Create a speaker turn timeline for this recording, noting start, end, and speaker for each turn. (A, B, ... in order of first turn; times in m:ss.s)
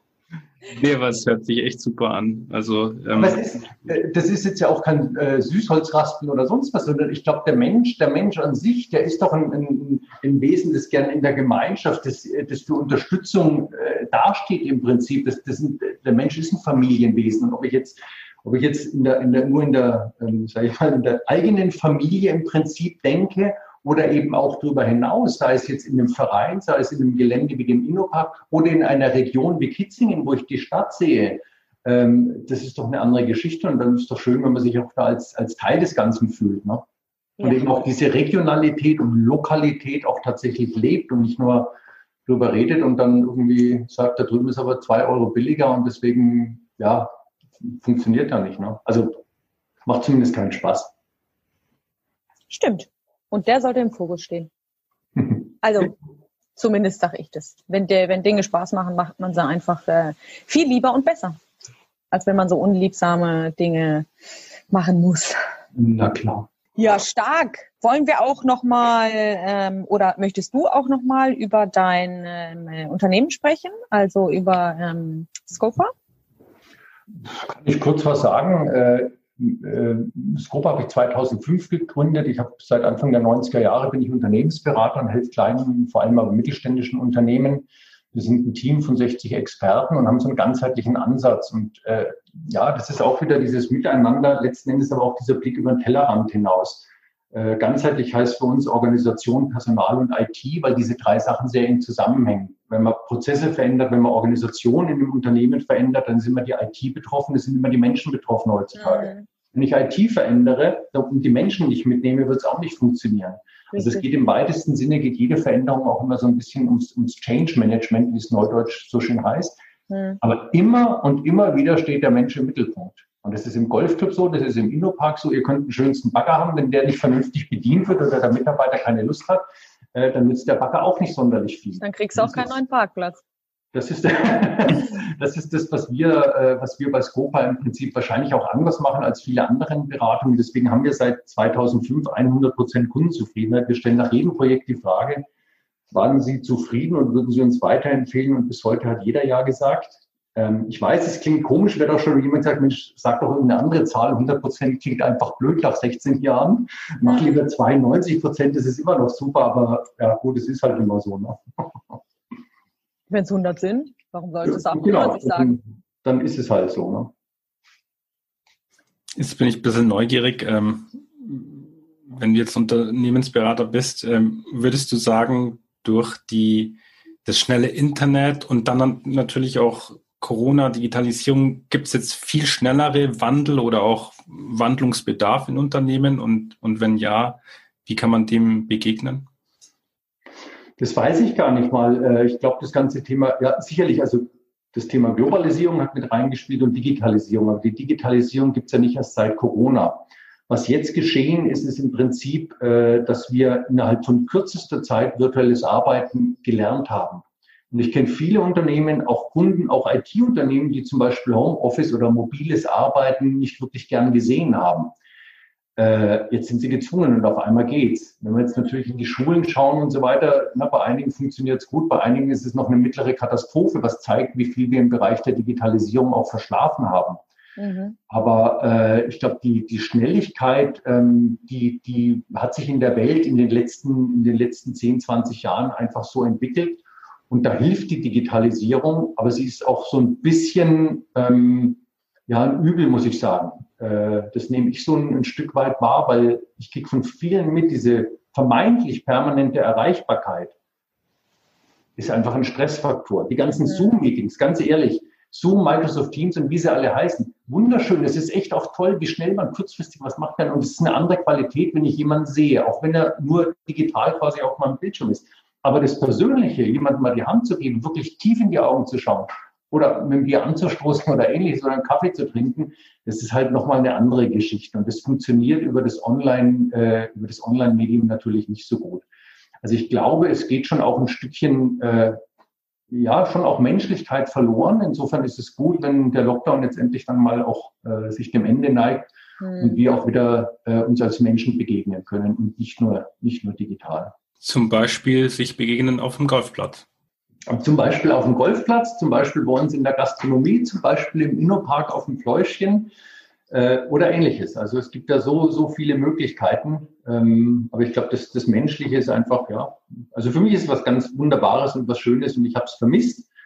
0:00.7-0:03.4 A
0:03.2-0:36.8 B
0:37.4-0:37.7 C
0:37.4-0:41.7 B
0:42.3-0:49.2 B
0:49.8-0:50.9 B
0:52.5-0:54.5 C
0:55.6-0:56.0 C
0:56.6-1:01.4 C
1:02.1-1:04.1 C
1:04.7-1:05.4 C
1:05.8-1:06.5 B
1:06.8-1:15.9 C
1:17.2-1:59.6 B
1:48.8-1:49.3 C
1:53.7-1:54.1 C
1:59.9-2:00.2 C
2:00.2-2:12.5 B
2:11.8-2:13.2 C
2:13.7-2:25.2 B
2:25.9-2:42.0 B
2:37.0-2:37.4 C
2:43.1-2:45.6 C
2:44.4-2:47.1 B
2:49.2-3:09.3 A
3:10.8-3:34.9 B
3:35.8-3:47.2 B
3:47.6-3:48.0 C
3:48.1-4:10.5 B
4:12.0-4:39.0 B
4:39.6-4:42.2 B
4:42.9-4:54.2 B
4:49.4-4:49.8 C
4:54.4-4:56.9 A
4:57.5-5:02.9 B
5:03.5-5:13.3 B